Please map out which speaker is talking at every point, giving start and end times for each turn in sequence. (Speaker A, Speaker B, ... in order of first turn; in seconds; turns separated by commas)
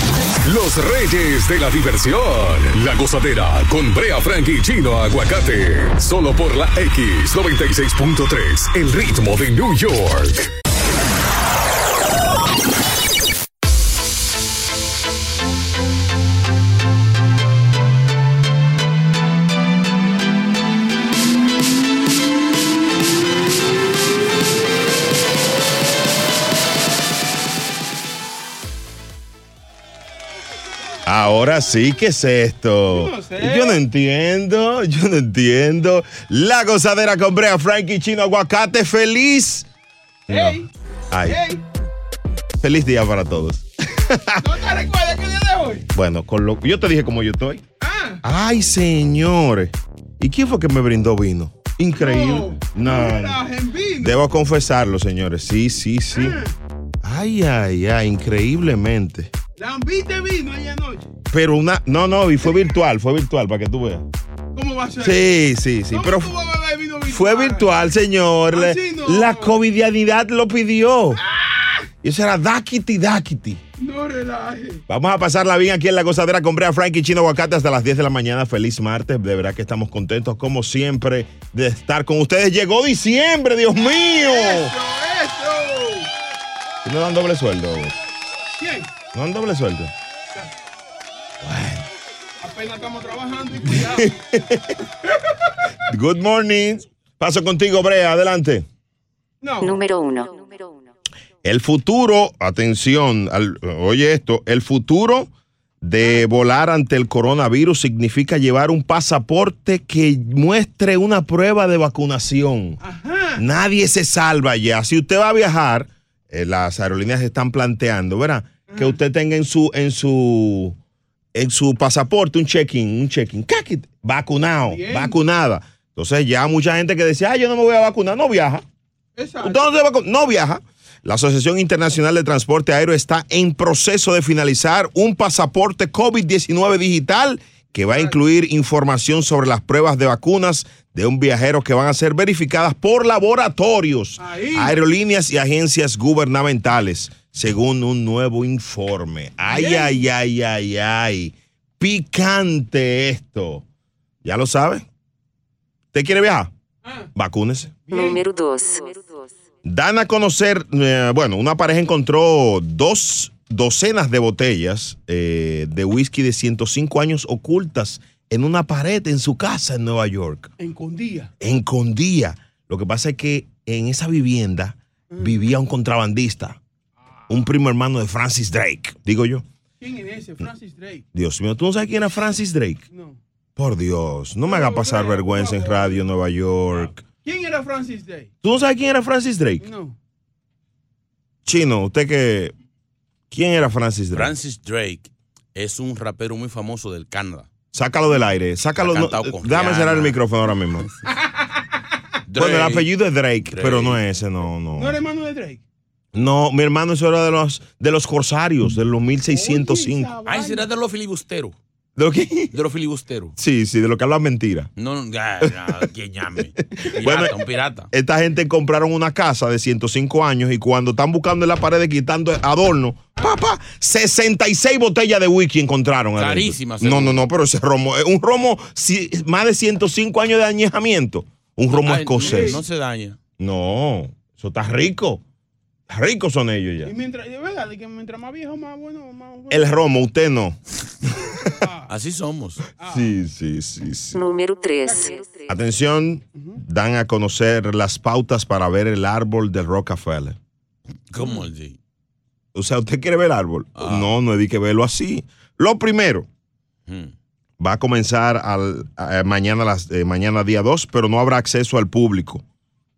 Speaker A: 0.4-10.4, Speaker B: 31.1-39.7, Speaker C: 32.9-33.8, Speaker C: 40.3-40.7, Speaker B: 40.3-41.4, Speaker C: 41.2-41.6, Speaker B: 42.6-44.5, Speaker C: 44.4-45.9, Speaker B: 45.9-47.6, Speaker C: 47.8-48.2, Speaker B: 48.2-53.4, Speaker C: 51.9-54.2, Speaker B: 54.0-56.4, Speaker C: 56.1-56.5, Speaker B: 57.0-59.3, Speaker C: 59.6-61.1, Speaker B: 61.3-64.0, Speaker C: 64.5-65.2, Speaker B: 65.0-66.3, Speaker C: 65.9-67.7, Speaker B: 67.1-71.2, Speaker C: 68.5-69.5, Speaker C: 71.2-71.9, Speaker B: 72.0-73.6, Speaker C: 73.8-74.8, Speaker B: 74.9-84.7, Speaker C: 84.2-86.1, Speaker B: 86.8-87.9, Speaker C: 88.5-88.9, Speaker B: 89.1-89.9, Speaker B: 91.4-91.8, Speaker C: 92.4-94.2, Speaker B: 93.6-94.7, Speaker B: 95.9-98.7, Speaker C: 99.4-99.8, Speaker D: 99.6-100.9, Speaker B: 101.4-105.3, Speaker B: 105.8-112.8, Speaker C: 112.8-113.4, Speaker B: 113.4-120.8, Speaker C: 118.7-119.0, Speaker B: 121.3-128.6, Speaker C: 124.7-125.2, Speaker C: 129.2-129.6, Speaker B: 129.4-153.6, Speaker C: 137.9-138.2, Speaker C: 144.2-144.7, Speaker C: 149.5-150.0, Speaker B: 154.2-154.8, Speaker B: 155.9-156.5, Speaker B: 157.1-157.8, Speaker C: 157.9-158.2, Speaker D: 157.9-159.3, Speaker B: 159.6-170.5, Speaker C: 170.6-171.3, Speaker B: 171.4-176.6, Speaker C: 175.1-175.5, Speaker B: 177.3-179.4, Speaker C: 179.8-181.0, Speaker B: 181.1-182.8, Speaker C: 182.9-183.2, Speaker B: 183.6-187.0, Speaker C: 184.4-186.0, Speaker C: 187.2-188.3, Speaker B: 188.4-189.7, Speaker C: 189.6-189.9, Speaker B: 191.4-192.5, Speaker B: 193.3-194.3, Speaker E: 194.1-197.5, Speaker B: 197.7-200.9, Speaker E: 198.8-200.2, Speaker E: 202.3-202.9, Speaker B: 202.3-205.0, Speaker E: 203.5-204.0, Speaker C: 204.7-205.6, Speaker B: 206.1-210.2, Speaker C: 209.3-210.6, Speaker E: 210.3-211.6, Speaker B: 212.0-212.5, Speaker E: 212.5-213.3, Speaker B: 213.4-214.7, Speaker E: 214.8-217.9, Speaker B: 215.4-215.8, Speaker B: 217.0-217.3, Speaker B: 217.9-232.6, Speaker E: 226.2-227.3, Speaker E: 231.7-233.2, Speaker C: 232.2-232.6, Speaker B: 233.4-235.2, Speaker B: 235.9-236.9, Speaker C: 236.8-239.7, Speaker B: 239.5-240.6, Speaker C: 241.4-241.9, Speaker E: 241.9-242.6, Speaker C: 242.8-243.1, Speaker B: 242.9-244.2, Speaker D: 244.1-245.5, Speaker C: 244.8-245.2, Speaker B: 245.5-250.4, Speaker E: 251.1-251.8, Speaker B: 252.5-256.3, Speaker E: 253.8-254.1, Speaker E: 256.9-257.1, Speaker B: 257.6-262.4